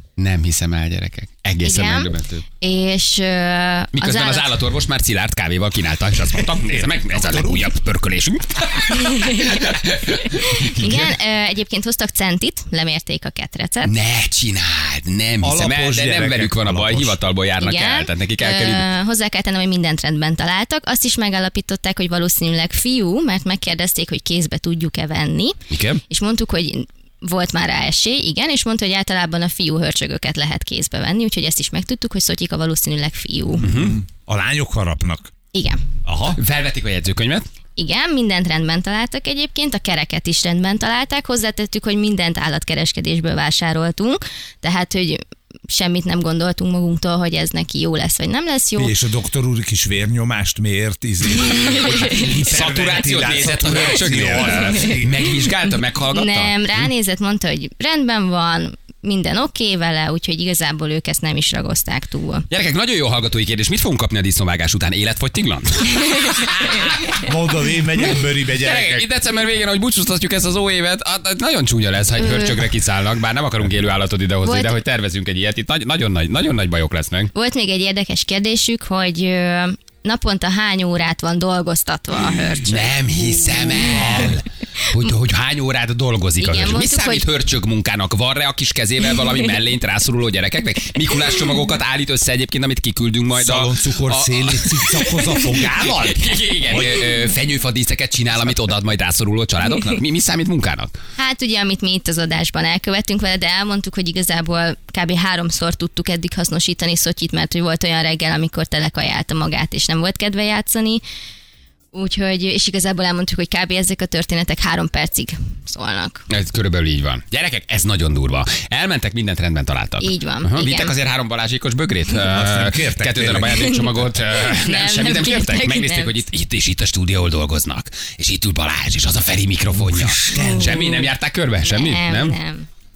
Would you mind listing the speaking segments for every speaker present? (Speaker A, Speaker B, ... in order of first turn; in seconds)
Speaker A: 0.2-2.4, 3.9-11.2, 13.8-18.9, 25.7-26.0, 33.6-34.0, 36.3-37.5, 52.0-56.9, 62.5-66.9, 68.0-77.3, 82.7-101.0, 116.3-132.4
Speaker B: 1.6-4.5, 8.9-9.6, 10.3-13.9, 17.6-33.7, 35.5-35.8, 37.8-48.9, 51.4-52.4, 54.6-54.9, 56.1-62.5, 72.2-72.6, 74.4-74.8, 77.3-82.9, 83.5-84.3, 86.4-87.3, 101.2-111.0, 111.9-116.2, 120.0-120.9, 123.5-126.2, 130.3-131.1, 131.7-132.7
Speaker C: 6.4-7.7, 15.4-17.2, 33.7-35.3, 36.0-36.4, 48.8-55.4, 67.1-69.1, 83.9-84.3, 93.3-97.1, 122.3-123.7, 129.8-131.0